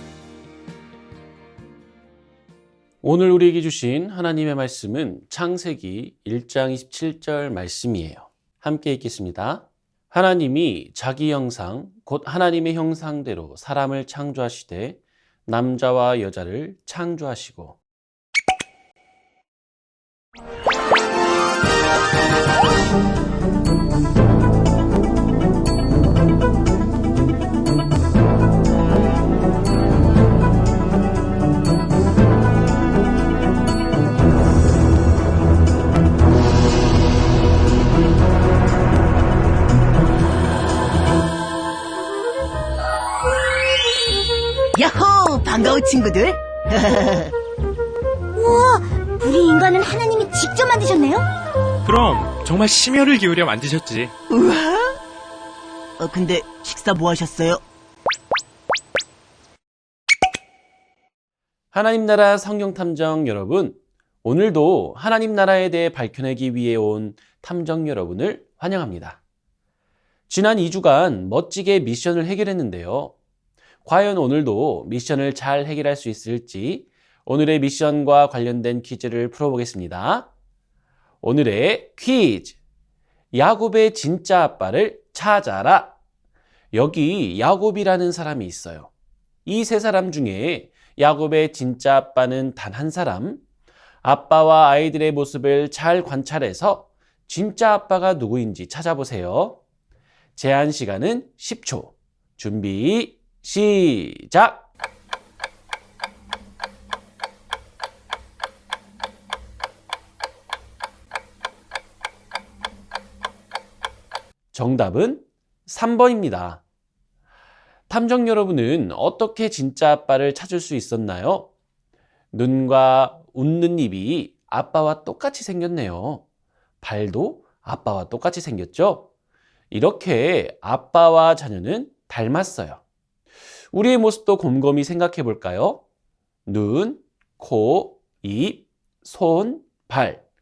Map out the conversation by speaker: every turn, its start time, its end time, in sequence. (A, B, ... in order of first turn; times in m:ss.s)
0:03.0-0:17.8 A
0:44.8-0:47.3 B
0:48.3-0:51.3 C
0:51.8-0:54.1 D
0:54.3-0:54.9 B
0:56.0-0:57.6 B
1:01.7-1:09.2 A
1:10.3-1:13.1 A
1:13.8-1:20.3 A
1:21.2-1:22.6 A
1:23.3-1:25.9 A
1:26.7-1:28.9 A
1:29.5-1:33.4 A
1:34.0-1:39.6 A
1:40.4-1:44.6 A
1:54.5-1:56.6 A
1:57.9-2:01.5 A
2:02.3-2:06.2 A
2:06.8-2:09.1 A
2:09.7-2:12.8 A
2:13.7-2:15.8 A
2:16.5-2:20.2 A